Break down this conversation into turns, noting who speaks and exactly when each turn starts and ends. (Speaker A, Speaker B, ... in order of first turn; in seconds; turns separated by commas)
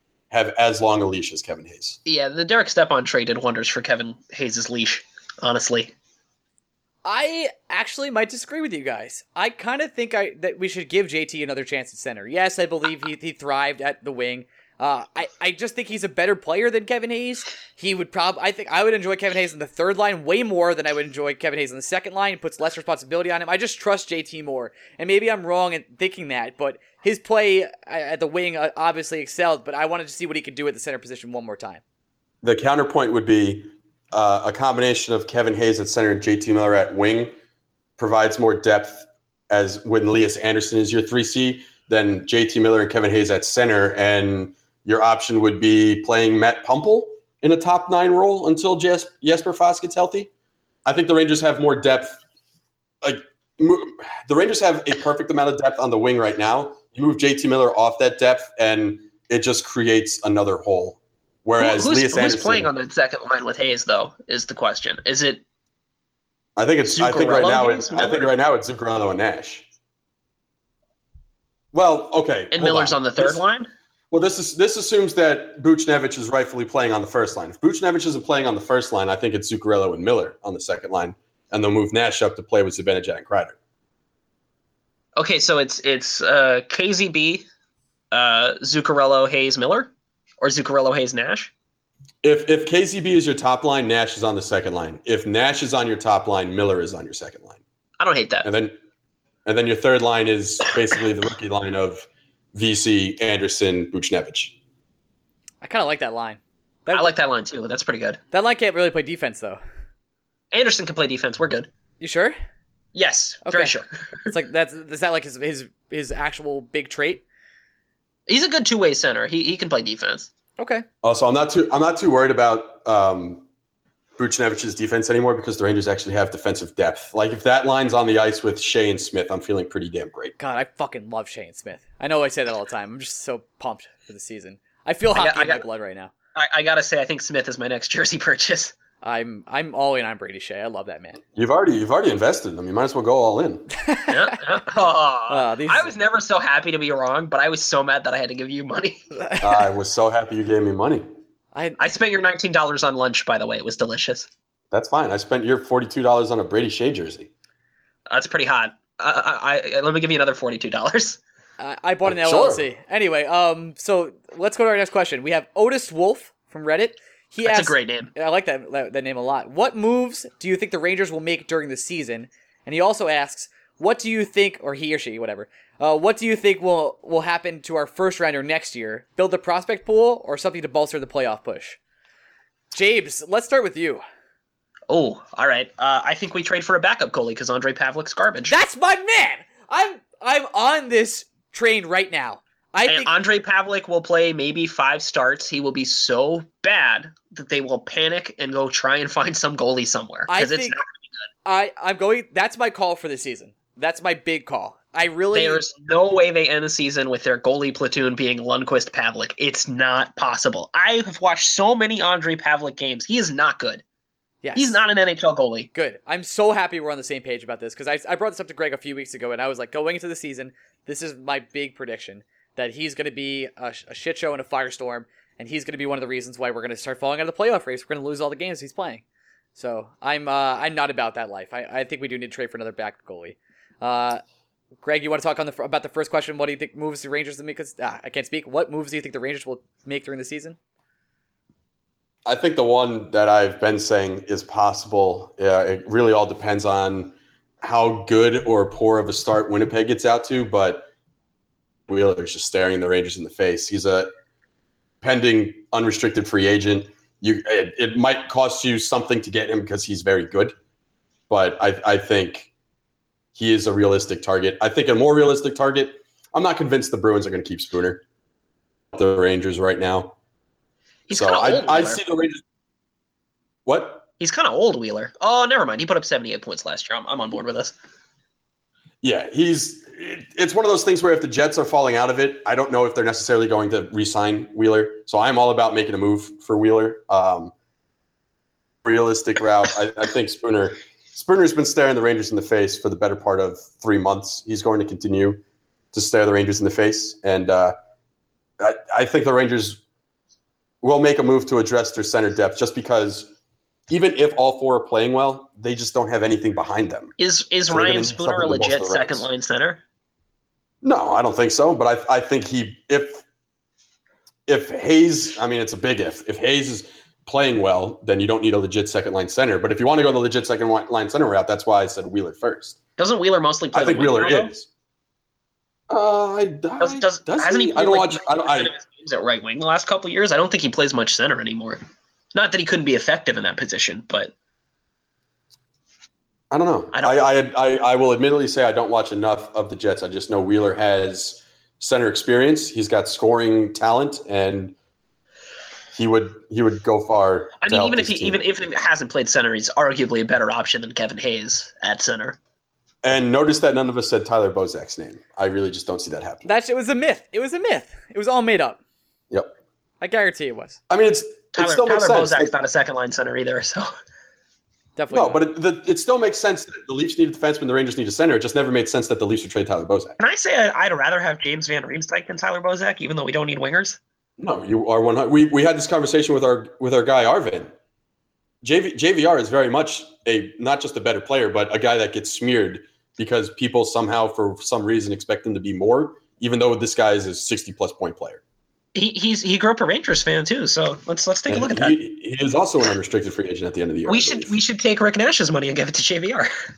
Speaker A: 0.3-2.0, Speaker B: 2.0-5.9, Speaker C: 7.0-31.8, Speaker A: 32.4-37.3, Speaker A: 38.0-50.3, Speaker A: 50.8-52.2, Speaker A: 53.0-62.7, Speaker B: 61.6-65.4, Speaker A: 66.5-69.7, Speaker B: 66.9-68.3, Speaker A: 71.7-73.4, Speaker B: 72.5-73.7, Speaker A: 74.1-83.5, Speaker B: 85.2-87.4, Speaker B: 88.1-91.5, Speaker A: 92.2-97.6, Speaker B: 98.0-98.5, Speaker A: 98.4-98.8, Speaker A: 99.4-104.5, Speaker C: 105.6-107.1, Speaker B: 106.9-108.2, Speaker C: 108.3-109.6, Speaker B: 110.5-111.7, Speaker C: 112.0-112.4, Speaker B: 112.9-114.3, Speaker C: 113.5-113.7, Speaker C: 114.2-117.2, Speaker B: 118.3-120.3, Speaker C: 120.6-120.8, Speaker A: 121.0-123.4, Speaker A: 124.2-130.3, Speaker C: 130.4-136.1, Speaker B: 135.1-135.6, Speaker B: 136.3-138.8, Speaker C: 139.0-141.2, Speaker A: 141.3-143.7, Speaker C: 143.8-144.4, Speaker B: 144.1-149.0, Speaker C: 145.3-145.9, Speaker C: 149.1-149.7, Speaker A: 149.4-151.0, Speaker C: 151.5-151.8, Speaker B: 151.8-154.3, Speaker A: 154.7-157.3, Speaker B: 158.1-161.2, Speaker C: 161.6-181.8, Speaker A: 162.0-162.6, Speaker B: 167.4-168.1, Speaker C: 182.7-184.0, Speaker B: 184.9-188.6, Speaker C: 188.5-193.1, Speaker B: 192.9-200.8, Speaker C: 200.3-200.8, Speaker C: 201.4-205.7, Speaker B: 205.3-213.8, Speaker C: 214.4-214.8, Speaker B: 214.6-215.7, Speaker C: 215.7-229.0, Speaker C: 229.6-234.2, Speaker C: 234.8-240.6, Speaker A: 242.2-250.9, Speaker A: 251.9-254.1, Speaker A: 255.0-260.5, Speaker A: 261.3-262.5, Speaker A: 263.3-268.0, Speaker A: 268.9-270.1, Speaker B: 271.1-272.0, Speaker A: 271.1-272.4, Speaker A: 273.6-274.0, Speaker B: 274.2-277.7, Speaker A: 279.0-287.5, Speaker A: 288.8-295.4, Speaker A: 295.9-297.7, Speaker A: 298.6-299.8, Speaker A: 300.8-303.3, Speaker A: 303.9-307.1, Speaker B: 307.2-309.8, Speaker A: 307.7-309.2, Speaker A: 310.8-313.2, Speaker A: 314.5-322.8, Speaker B: 323.0-324.5, Speaker A: 323.7-324.7, Speaker A: 325.9-328.7, Speaker B: 326.8-331.8, Speaker B: 332.3-334.3, Speaker A: 336.5-344.8, Speaker B: 336.9-337.2, Speaker A: 345.9-348.4, Speaker B: 347.6-352.4, Speaker A: 353.0-356.5, Speaker C: 356.4-358.8, Speaker C: 360.0-360.8, Speaker A: 360.9-362.5, Speaker B: 361.5-363.9, Speaker C: 364.9-365.4, Speaker A: 365.1-370.1, Speaker B: 370.2-374.0, Speaker A: 374.4-377.7, Speaker A: 378.6-388.4, Speaker B: 388.9-391.9, Speaker A: 391.5-394.5, Speaker B: 394.1-396.5